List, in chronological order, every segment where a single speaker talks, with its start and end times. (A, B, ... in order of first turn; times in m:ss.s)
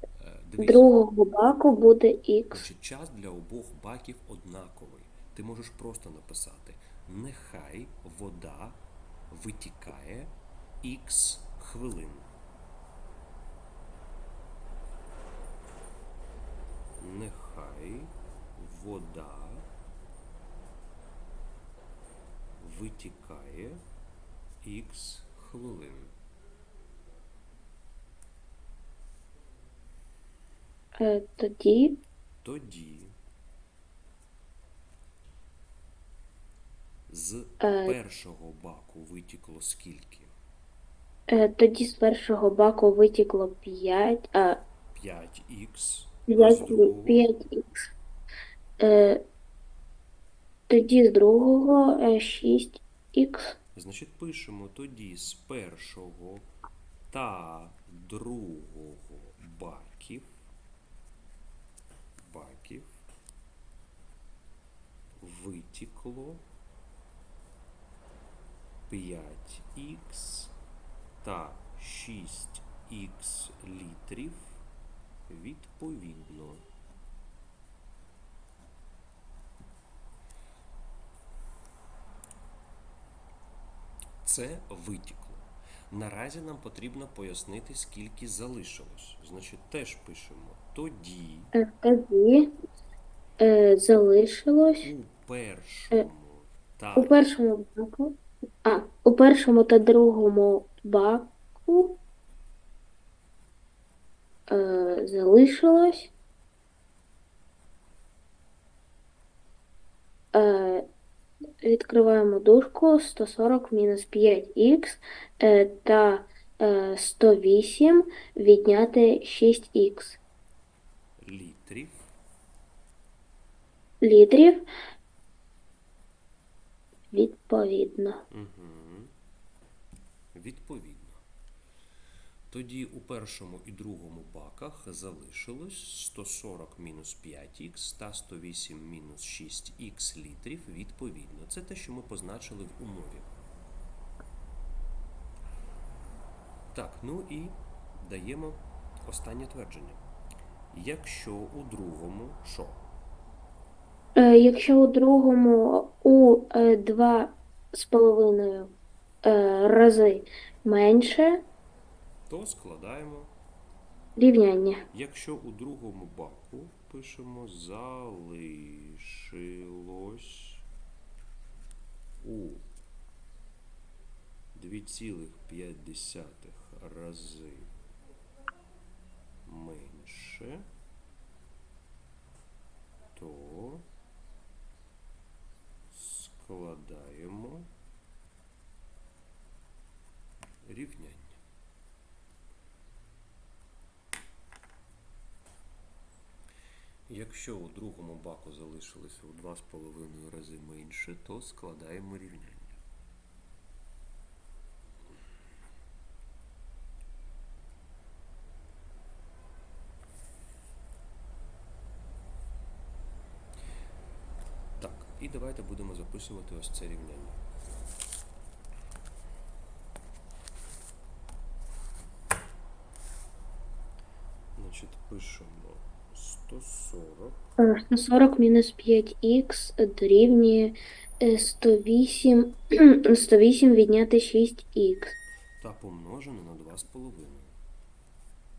0:00.2-0:00.9 A
0:00.6-0:02.6 B
0:02.5-0:12.3 A
0:17.0-0:19.7 A
0:22.6-0:23.8 A
0:24.6-0:26.1 A
0:31.0-0:32.0 B
0:32.4-0:33.1 A
0:37.1-0:40.3 A
0:37.6-0:37.9 B
0:41.3-0:44.6 B
0:44.9-0:47.2 A
0:46.3-0:47.9 B
0:48.8-0:49.2 B
0:50.7-0:53.5 B
0:53.7-0:56.5 A
0:57.1-1:00.4 A
1:02.2-1:03.0 A
1:05.2-1:06.4 A
1:08.9-1:10.5 A
1:11.2-1:14.6 A
1:15.3-1:16.6 A
1:24.2-1:31.5 A
1:31.6-1:32.5 B
1:33.4-1:34.9 B
1:34.8-1:37.2 A
1:37.0-1:42.0 B
1:44.5-1:46.1 B
1:50.3-1:50.8 B
1:51.6-2:00.2 B
2:01.2-2:02.1 A
2:04.0-2:04.6 B
2:07.1-2:08.2 B
2:08.3-2:09.1 A
2:10.3-2:11.2 A
2:12.5-2:23.3 A
2:26.7-2:30.0 A
2:30.7-2:32.8 A
2:34.2-2:41.4 B
2:42.3-2:43.3 A
2:44.2-2:44.8 B
2:44.9-2:50.6 A
2:52.2-2:52.6 A
2:54.5-2:57.7 A
2:59.4-3:00.6 A
3:03.1-3:03.9 A
3:05.9-3:07.7 A
3:10.6-3:11.4 A
3:17.1-3:22.8 A
3:34.8-3:37.4 A
3:44.6-3:47.4 A
3:47.6-3:55.1 B
3:55.6-3:57.6 A